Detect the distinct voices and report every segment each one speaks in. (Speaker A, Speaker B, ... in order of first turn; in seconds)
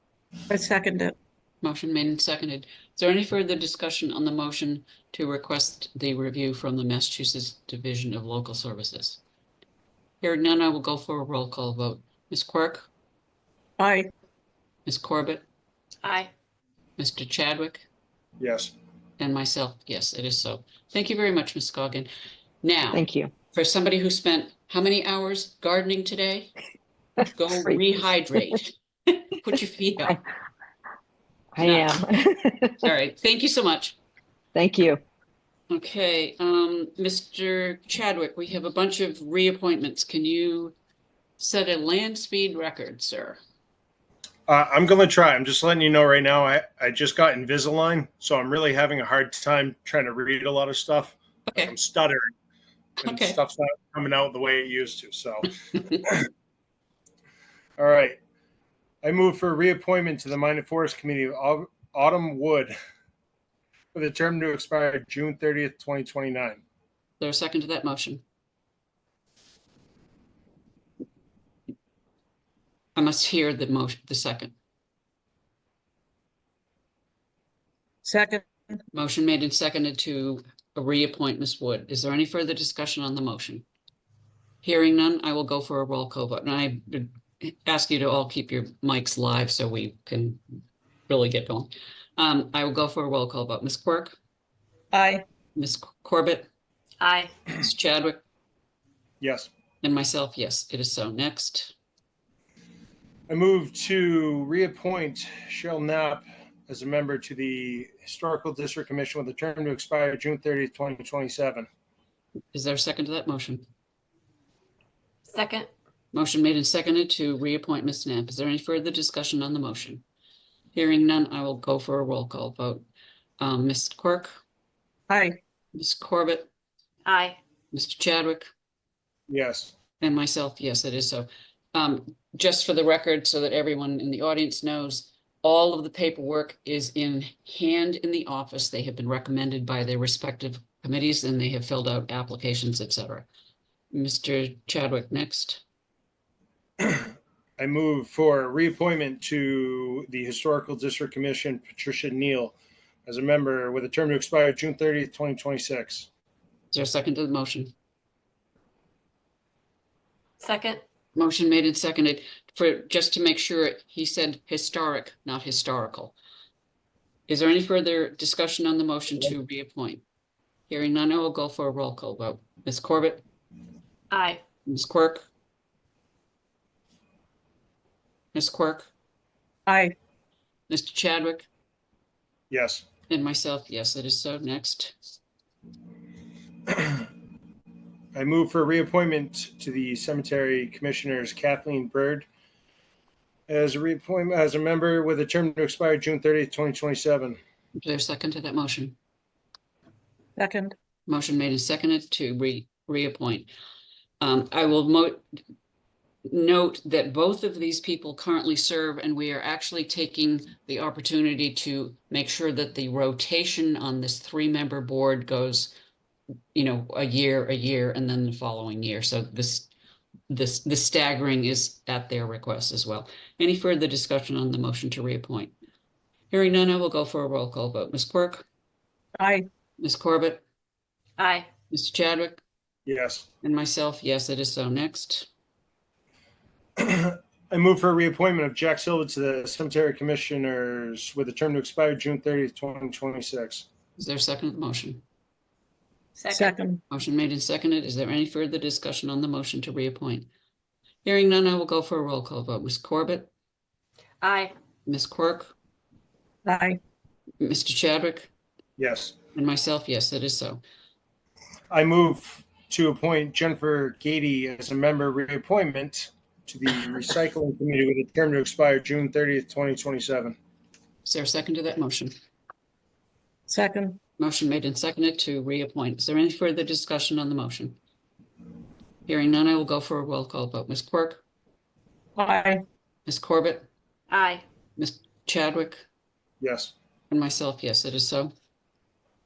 Speaker A: 0.5-1.1, 13.8-14.1, 78.0-78.5, 94.9-95.2, 125.1-125.4, 179.7-179.9, 200.4-200.8, 229.2-229.5, 246.3-246.8, 256.4-256.8, 273.5-274.0, 282.1-282.6
Speaker B: 1.6-9.2, 10.2-12.9, 14.8-15.4, 17.0-17.9, 19.2-22.1, 22.6-26.5, 27.2-30.2, 31.6-32.0, 32.8-34.0, 35.7-40.8, 41.4-43.4, 51.5-51.7, 53.0-53.4, 67.2-68.2, 73.0-74.5, 78.9-83.6, 84.6-90.4, 91.1-94.1, 95.5-96.5, 97.5-98.2, 99.8-101.7, 112.5-113.6, 116.1-120.0, 120.7-122.8, 123.4-124.3, 125.7-126.5, 127.7-128.5, 130.0-143.3, 143.9-145.6, 156.7-157.7, 161.2-166.2, 167.3-170.0, 170.7-173.2, 174.7-175.3, 178.3-178.9, 180.7-181.5, 183.1-185.0, 197.8-199.0, 201.1-203.5, 204.2-205.2, 206.2-215.7, 216.5-219.7, 220.3-225.5, 226.3-228.4, 229.8-230.4, 231.7-232.4, 233.4-235.3, 244.0-245.0, 246.9-250.3, 251.0-253.3, 254.8-255.5, 257.4-258.3, 259.3-260.6, 271.0-272.1, 274.2-277.8, 279.1-281.2, 283.1-283.7, 284.8-285.8, 287.1-288.3
Speaker C: 16.0-16.3, 97.0-97.3, 115.3-115.7, 127.1-127.4, 160.4-160.8, 174.1-174.4, 231.2-231.5, 246.2-246.6, 254.2-254.5, 284.1-284.4
Speaker D: 18.4-18.7, 44.5-52.3, 53.0-56.3, 57.8-58.2, 59.0-62.7, 63.9-66.6, 99.2-99.5, 103.3-111.7, 129.3-129.7, 146.8-152.5, 153.1-156.1, 182.5-182.8, 186.7-187.0, 188.1-192.3, 193.5-197.4, 232.8-233.3, 236.8-243.7, 258.8-259.1, 261.7-270.4, 286.4-286.7
Speaker E: 22.9-23.3, 31.6-32.9, 34.5-35.0